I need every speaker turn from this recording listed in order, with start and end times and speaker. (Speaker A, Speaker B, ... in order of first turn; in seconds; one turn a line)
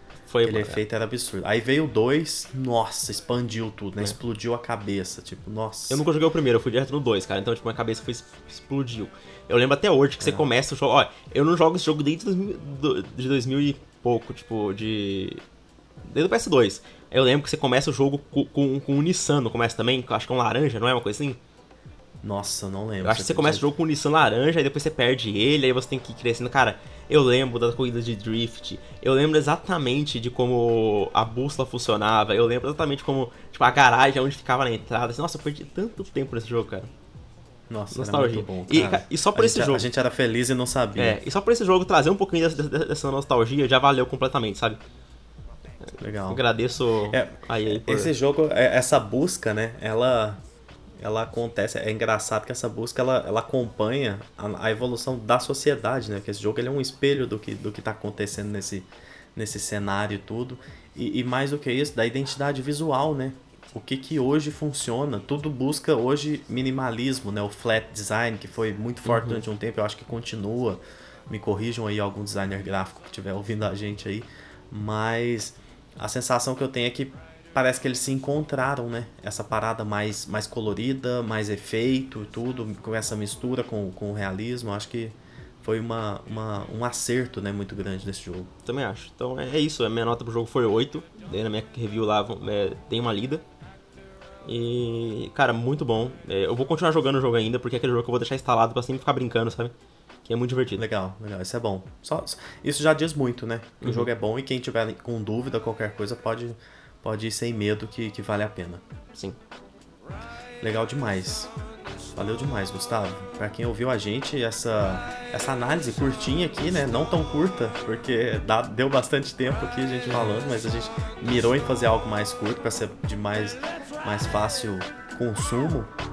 Speaker A: 0.3-0.8
Speaker B: 0.4-6.0
Speaker A: 5.9-15.4
Speaker B: 10.2-10.4
Speaker A: 16.0-21.4
Speaker B: 22.2-23.7
Speaker A: 23.0-36.9
Speaker B: 37.7-41.2
Speaker A: 37.9-39.9
Speaker A: 41.0-44.8
Speaker A: 45.9-48.1
Speaker B: 46.0-46.4
Speaker B: 47.1-50.4
Speaker B: 51.0-88.5
Speaker A: 69.0-69.4
Speaker A: 88.6-93.4
Speaker A: 94.4-99.7
Speaker A: 100.2-100.8
Speaker B: 100.7-108.8
Speaker A: 103.8-104.1
Speaker B: 110.6-111.5
Speaker B: 112.2-125.9
Speaker A: 120.0-120.3